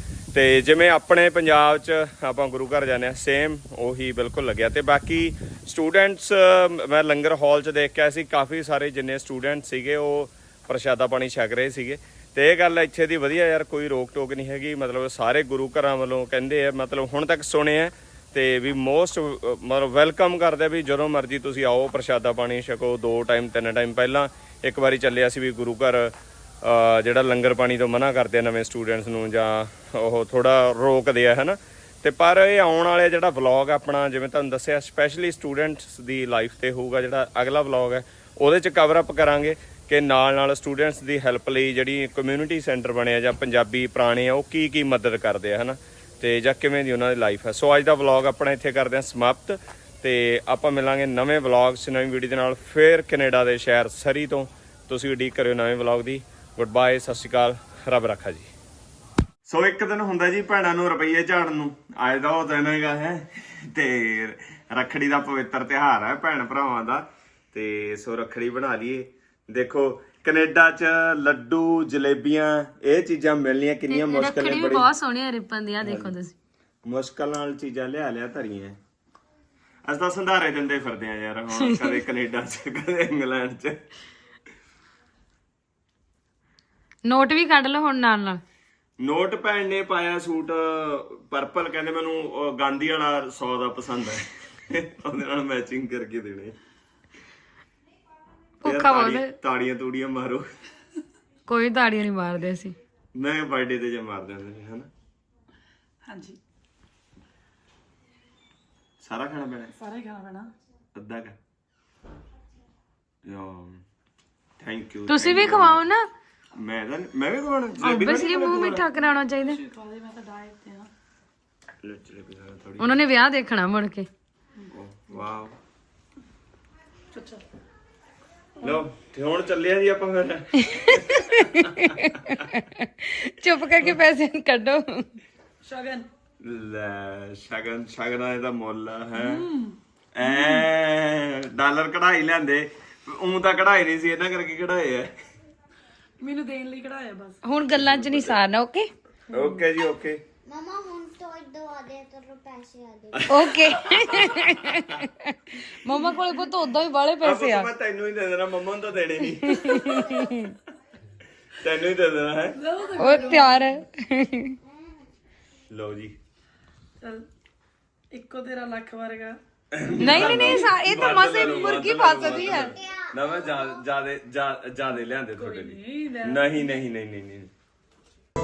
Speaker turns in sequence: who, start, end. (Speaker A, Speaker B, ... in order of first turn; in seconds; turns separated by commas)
Speaker A: 0.3-58.5, Speaker A: 59.5-74.9, Speaker B: 73.9-76.3, Speaker A: 75.8-76.1, Speaker A: 76.8-78.8, Speaker A: 79.9-83.8, Speaker B: 81.6-82.0, Speaker B: 87.0-88.4, Speaker A: 89.0-96.5, Speaker B: 98.6-99.3, Speaker A: 98.6-100.5, Speaker B: 101.5-102.8, Speaker A: 103.1-104.9, Speaker C: 106.0-106.4, Speaker A: 109.0-109.7, Speaker C: 109.8-110.5, Speaker A: 110.9-111.3, Speaker A: 113.2-113.8, Speaker A: 114.6-115.8, Speaker B: 115.1-116.1, Speaker A: 116.5-118.8, Speaker B: 117.8-119.6, Speaker C: 118.9-120.9, Speaker A: 121.8-123.0, Speaker B: 122.8-124.1, Speaker C: 124.6-125.2, Speaker A: 124.7-125.5, Speaker C: 127.1-127.4, Speaker A: 128.6-132.5, Speaker B: 130.6-135.2, Speaker C: 135.6-136.1, Speaker A: 136.4-139.4, Speaker C: 139.1-140.7, Speaker A: 140.1-145.1, Speaker C: 146.2-147.4, Speaker B: 147.4-148.9, Speaker A: 147.7-148.4, Speaker C: 149.3-149.6, Speaker A: 149.3-150.2, Speaker D: 150.4-153.3, Speaker A: 153.1-154.9, Speaker B: 153.3-157.7, Speaker C: 155.9-156.3, Speaker A: 157.2-160.0, Speaker B: 159.4-160.6, Speaker A: 161.6-162.6, Speaker C: 162.6-163.8, Speaker B: 162.9-164.6, Speaker A: 165.7-166.2, Speaker C: 167.0-167.2, Speaker C: 168.1-169.4, Speaker A: 169.7-177.5, Speaker B: 170.0-172.8, Speaker D: 172.8-173.8, Speaker C: 175.3-176.7